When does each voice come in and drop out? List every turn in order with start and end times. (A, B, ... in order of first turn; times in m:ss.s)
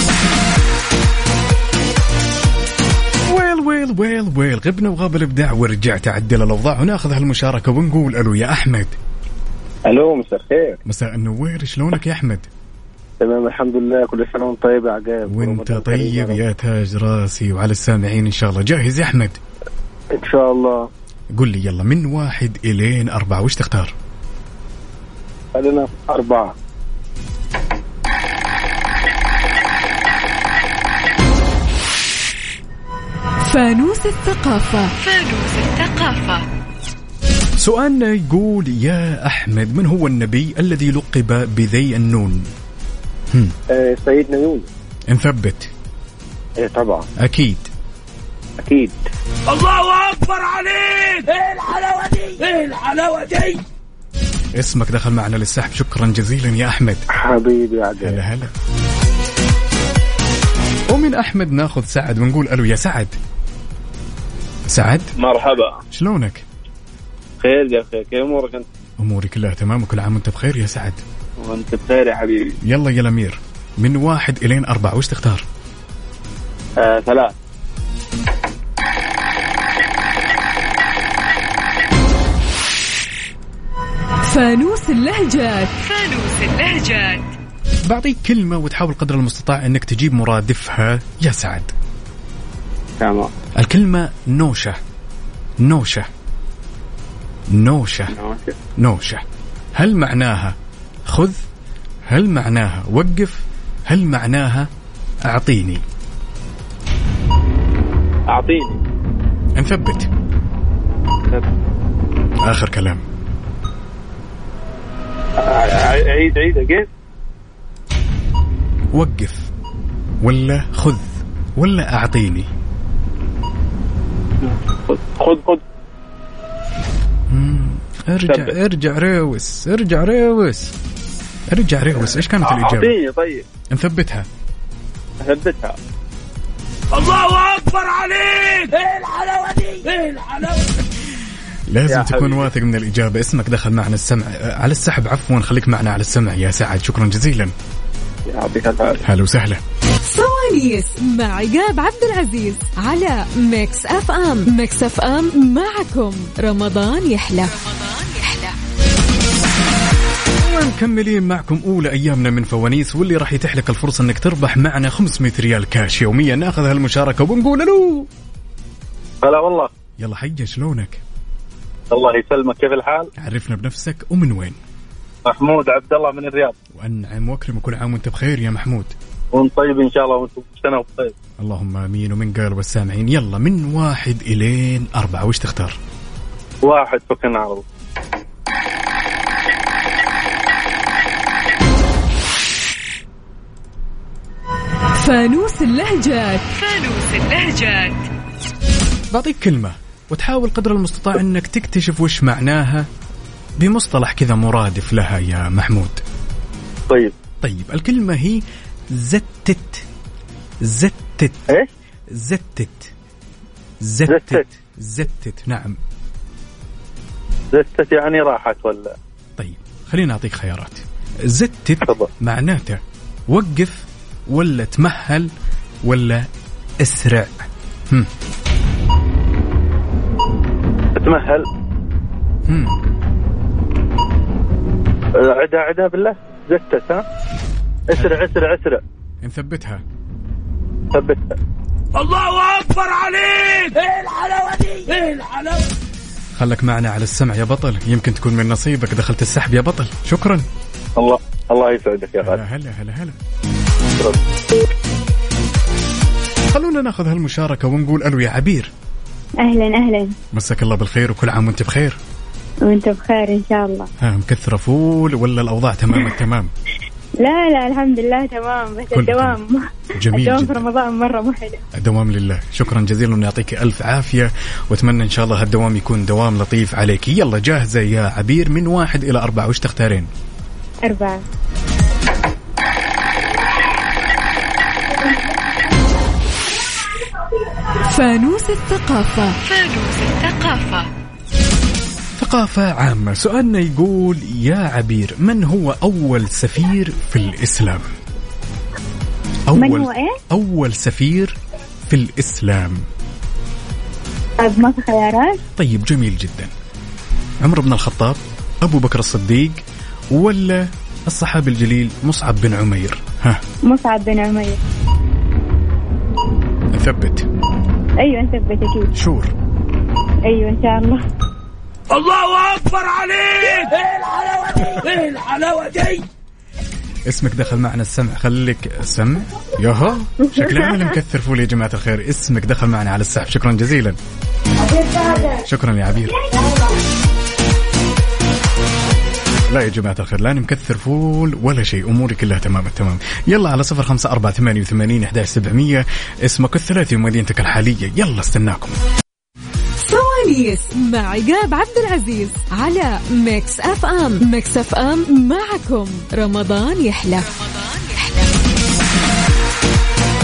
0:03.3-0:09.0 A
0:09.8-0:10.8 B
0:10.8-0:12.5 A
0:13.2-0:16.3 C
0:15.2-0:19.4 A
0:20.1-0:20.8 C
0:21.3-0:23.9 A
0:25.6-0:26.5 C
0:33.4-0:34.9 D
0:35.0-0:36.4 E
0:37.6-0:42.5 A
0:43.7-0:44.6 C
0:45.1-0:45.7 A
0:47.2-0:47.7 A
0:49.5-0:53.6 F
0:54.6-0:57.0 A
0:57.3-0:58.2 C
0:58.0-0:58.5 A
1:00.9-1:03.1 A
1:04.7-1:05.1 A
1:05.2-1:05.8 B
1:05.9-1:06.4 A
1:07.4-1:08.7 B
1:09.0-1:11.0 A
1:11.4-1:12.5 B
1:12.6-1:15.4 A
1:16.8-1:17.3 B
1:24.2-1:25.7 D
1:25.8-1:27.3 E
1:27.8-1:31.7 A
1:33.0-1:33.3 B
1:33.6-1:34.8 A
1:35.6-1:36.1 A
1:37.5-1:38.2 A
1:38.1-1:38.5 B
1:38.8-1:39.2 A
1:39.7-1:40.6 A
1:41.1-1:41.4 A
1:42.1-1:44.7 A
1:45.2-1:45.8 A
1:48.3-1:48.8 B
1:49.6-1:50.1 A
1:52.4-1:53.0 A
1:55.4-1:56.9 B
1:58.9-1:59.5 A
2:00.2-2:02.5 A
2:04.4-2:05.6 B
2:07.3-2:10.7 A
2:08.3-2:08.5 B
2:11.5-2:13.0 A
2:12.4-2:13.4 B
2:13.7-2:14.2 A
2:15.2-2:15.8 B
2:16.9-2:20.6 F
2:20.8-2:27.5 A
2:21.9-2:22.5 B
2:28.3-2:29.0 B
2:29.0-2:29.6 A
2:30.0-2:37.5 D
2:37.4-2:38.5 E
2:40.4-2:48.1 A
2:49.2-2:49.7 B
2:50.0-2:51.0 A
2:51.9-2:53.1 B
2:53.2-2:54.6 A
2:55.2-2:56.5 B
2:56.7-2:58.9 A
2:59.3-3:01.1 B
3:01.4-3:05.8 A
3:06.6-3:07.6 B
3:15.0-3:16.4 D
3:16.5-3:18.1 E
3:19.1-3:22.9 A
3:23.6-3:26.0 A
3:26.9-3:27.1 B
3:27.4-3:29.8 A
3:30.6-3:31.5 A
3:32.1-3:32.9 A
3:33.8-3:35.8 A
3:34.1-3:34.4 B
3:37.5-3:38.9 B
3:39.4-3:45.3 A
3:41.8-3:42.1 B
3:45.8-3:46.3 A
3:46.8-3:48.1 A
3:51.0-3:51.5 B
3:52.4-3:52.8 A
3:55.2-3:57.0 B
3:57.9-3:58.8 B
3:57.9-3:58.2 A
3:59.2-3:59.8 A
4:00.9-4:01.3 B
4:01.9-4:05.7 F
4:06.4-4:10.4 A
4:11.0-4:12.4 B
4:12.2-4:13.2 A
4:16.5-4:18.7 A
4:19.4-4:20.1 G
4:20.3-4:22.0 A
4:22.6-4:23.9 G
4:24.0-4:26.5 A
4:27.2-4:29.6 G
4:28.9-4:29.4 A
4:30.0-4:30.6 A
4:30.1-4:31.6 G
4:31.7-4:40.1 A
4:40.8-4:41.2 G
4:47.9-4:49.4 D
4:49.4-4:50.9 E
4:52.2-4:57.8 A
4:59.5-5:01.4 A
4:59.6-5:00.2 G
5:01.9-5:02.9 A
5:04.4-5:05.4 G
5:05.6-5:06.5 A
5:07.4-5:13.4 A
5:13.7-5:14.6 G
5:16.7-5:17.3 A
5:18.0-5:18.9 G
5:18.9-5:19.3 A
5:20.2-5:21.0 G
5:21.9-5:26.0 F
5:27.0-5:34.0 A
5:34.7-5:35.3 G
5:35.4-5:36.2 A
5:39.5-5:48.8 A
5:49.8-5:57.2 D
5:57.2-5:58.3 E